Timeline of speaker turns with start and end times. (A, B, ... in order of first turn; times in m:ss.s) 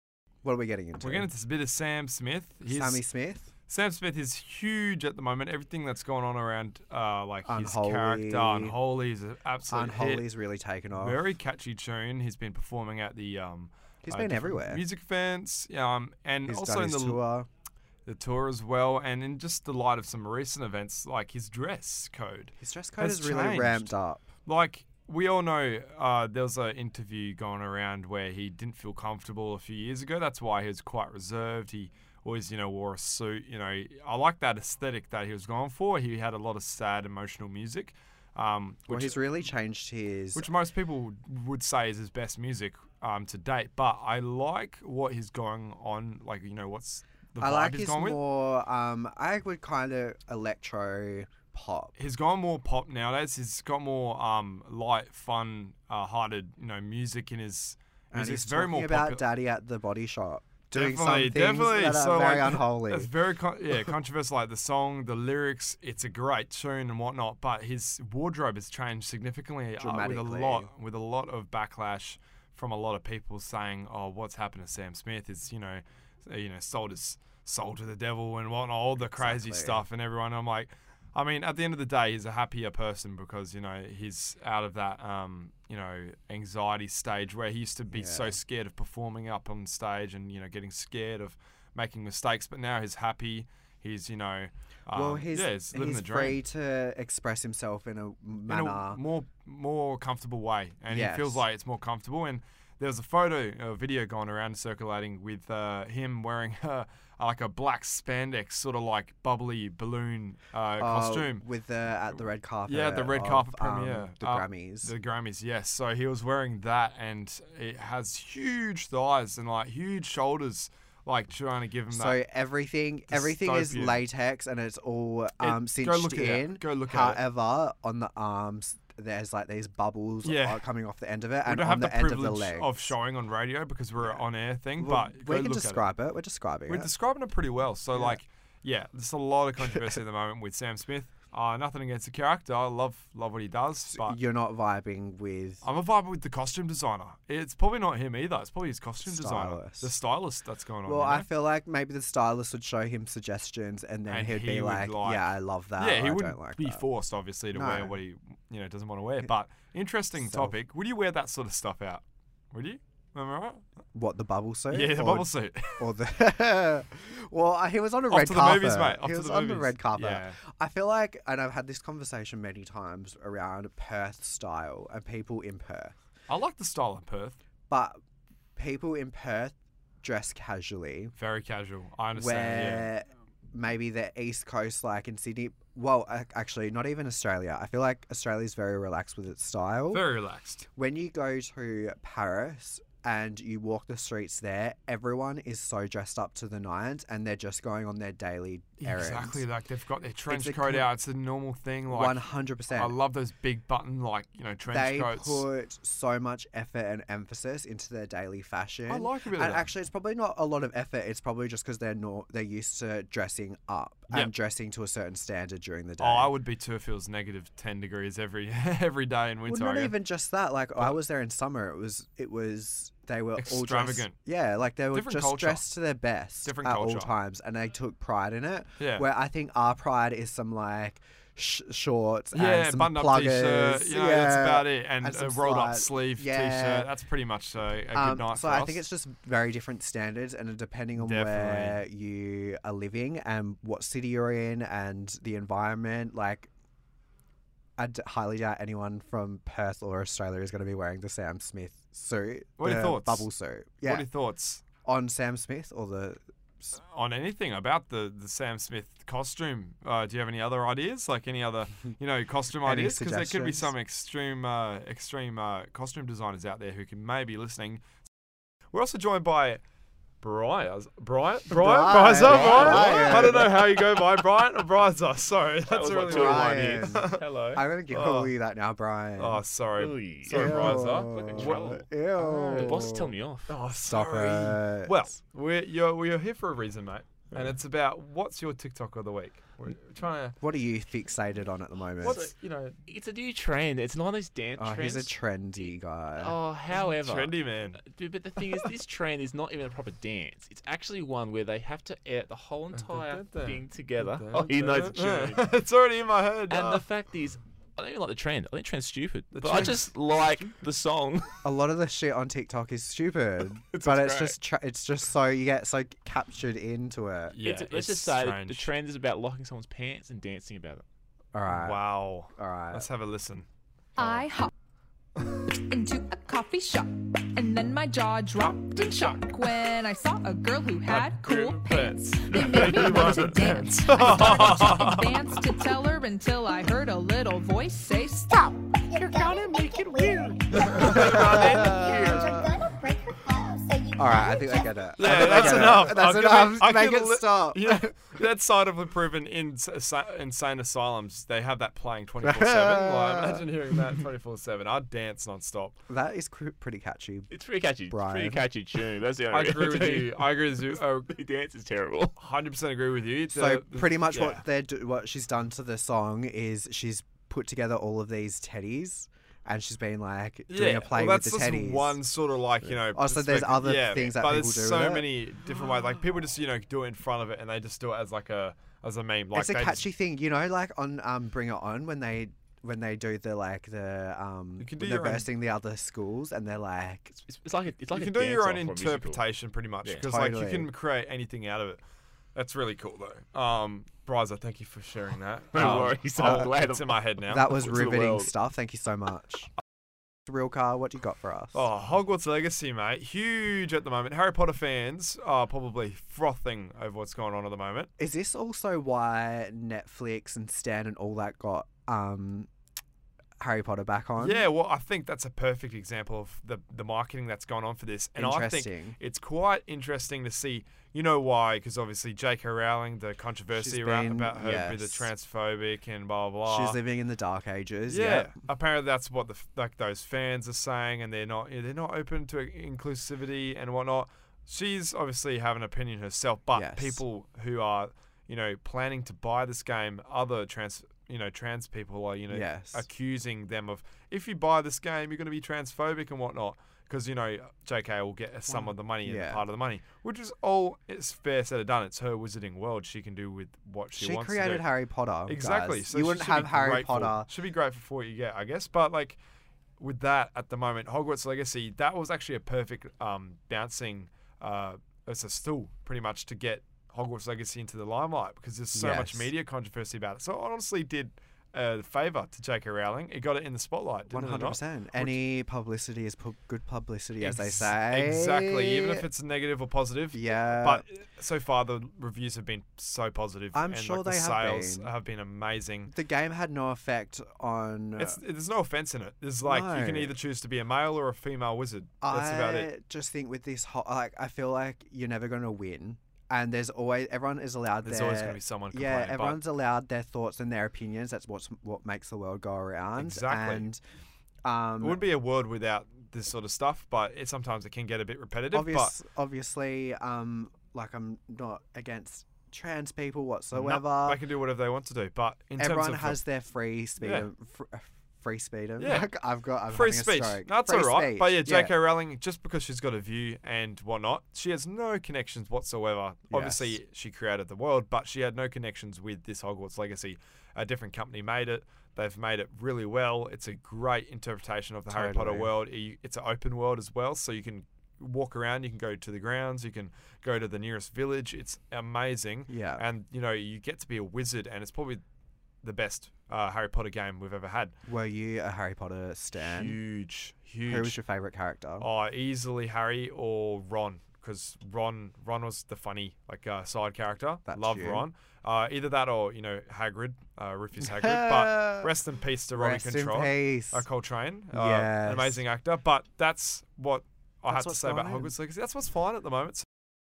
0:00.4-0:01.3 A
0:01.0-0:03.0 B
0:02.7-0:03.5 A
0:03.7-0:10.2 B
0:07.5-0:08.8 A
0:09.7-0:11.2 A
0:10.9-0:17.2 B
0:14.0-0:14.8 A
0:16.5-0:17.5 A
0:18.0-0:23.9 B
0:22.6-0:24.2 A
0:24.4-0:39.2 B
0:38.9-0:40.5 A
0:40.3-0:48.2 B
0:47.4-0:51.9 A
0:52.0-0:59.2 B
0:58.1-1:03.1 A
1:00.7-1:36.4 B
1:09.8-1:10.7 A
1:19.0-1:19.8 A
1:27.9-1:28.4 A
1:34.9-1:39.0 A
1:38.5-1:51.4 B
1:40.9-1:41.4 A
1:50.8-1:54.9 A
1:52.6-2:02.2 B
2:01.9-2:13.0 A
2:03.1-2:04.0 B
2:05.4-2:07.2 B
2:10.2-2:10.6 B
2:11.4-2:15.9 B
2:14.8-2:16.9 A
2:16.7-2:24.2 B
2:17.9-2:18.2 A
2:23.9-2:25.6 A
2:25.6-2:31.3 B
2:29.0-2:29.9 A
2:30.8-2:36.9 A
2:34.1-2:43.6 B
2:37.5-2:38.0 A
2:40.2-2:40.6 A
2:43.9-2:55.9 A
2:44.7-2:45.9 B
2:48.1-2:50.4 B
2:56.3-2:57.4 B
2:57.7-2:58.0 A
2:58.6-3:01.1 A
3:01.2-3:02.9 B
3:02.1-3:10.1 A
3:09.9-3:10.6 B
3:10.7-3:19.4 A
3:18.8-3:25.4 B
3:20.3-3:20.9 A
3:21.9-3:23.0 A
3:24.7-3:36.3 A
3:28.9-3:29.7 B
3:36.0-3:40.0 B
3:39.5-3:56.9 A
3:43.4-3:44.2 B
3:44.9-3:45.6 B
3:46.4-3:47.1 B
3:48.8-3:49.1 B
3:52.3-3:58.8 B
3:57.9-4:06.5 A
4:01.0-4:01.8 B
4:07.8-4:14.1 A
4:12.6-4:13.3 B
4:13.8-4:14.6 B
4:14.8-4:16.7 A
4:16.7-4:27.8 B
4:22.6-4:23.7 A
4:28.7-4:29.6 B
4:30.2-4:38.3 B
4:31.5-4:34.0 A
4:32.2-4:33.6 C
4:35.6-4:37.2 C
4:36.0-4:39.4 A
4:39.2-4:42.8 B
4:39.8-4:43.5 C
4:40.3-4:43.1 A
4:43.5-4:50.4 B
4:43.8-4:45.2 A
4:50.4-4:52.3 A
4:52.0-4:52.8 B
4:52.0-4:55.1 C
4:54.6-4:56.4 A
4:56.1-5:05.6 C
4:56.7-4:57.8 B
5:02.7-5:06.8 B
5:06.5-5:11.4 C
5:09.3-5:09.9 B
5:11.4-5:17.4 A
5:13.6-5:14.4 C
5:17.3-5:18.7 B
5:17.4-5:20.8 C
5:21.3-5:21.8 A
5:21.5-5:23.4 B
5:22.3-5:22.9 A
5:24.0-5:24.5 D
5:24.0-5:24.2 B
5:25.5-5:38.6 D
5:30.9-5:35.1 B
5:32.3-5:33.3 C
5:38.9-5:45.8 E
5:40.5-5:42.3 B
5:40.6-5:42.4 A
5:44.0-5:47.9 A
5:45.0-5:55.8 B
5:52.2-5:53.4 A
5:55.9-5:57.3 A
5:57.3-6:02.2 C
5:57.9-5:58.5 A
5:59.3-6:01.1 B
6:02.2-6:04.4 B
6:03.3-6:12.0 A
6:10.5-6:19.8 B
6:12.6-6:15.1 A
6:19.3-6:27.2 A
6:24.6-6:25.3 B
6:27.2-6:29.2 C
6:27.9-6:31.8 B
6:30.0-6:30.7 A
6:32.3-6:37.7 B
6:35.5-6:38.3 C
6:35.6-6:36.5 A
6:37.3-6:39.5 A
6:40.2-6:41.7 A
6:41.5-6:47.9 B
6:48.0-6:52.5 A
6:53.4-6:54.4 A
6:54.2-7:06.8 B
6:58.2-6:59.0 A
7:03.6-7:05.1 A
7:06.4-7:08.4 A
7:07.9-7:34.6 B
7:16.5-7:17.0 A
7:22.3-7:22.9 A
7:28.5-7:29.4 A
7:34.0-7:37.3 A
7:35.2-7:39.2 B
7:39.8-7:55.2 B
7:48.7-7:49.3 A
7:54.1-7:59.0 A
7:57.2-8:05.9 B
8:00.1-8:00.8 A
8:03.5-8:04.9 A
8:05.9-8:08.2 A
8:08.0-8:12.7 B
8:09.4-8:10.1 A
8:12.0-8:23.8 A
8:17.8-8:19.4 B
8:23.0-8:23.7 B
8:24.4-8:25.0 A
8:24.8-8:28.9 B
8:28.5-8:34.2 A
8:33.5-8:36.2 B
8:35.6-8:41.7 A
8:37.0-8:37.3 B
8:38.8-8:39.1 B
8:39.7-9:05.0 B
8:46.3-8:46.8 A
8:54.9-8:55.5 A
9:02.5-9:02.8 A
9:05.6-9:07.7 B
9:07.8-9:09.8 A
9:09.4-9:11.0 B
9:10.6-9:11.9 A
9:11.8-9:29.6 B
9:17.5-9:18.0 A
9:20.8-9:21.9 A
9:22.5-9:23.8 A
9:24.5-9:25.4 A
9:27.5-9:28.3 A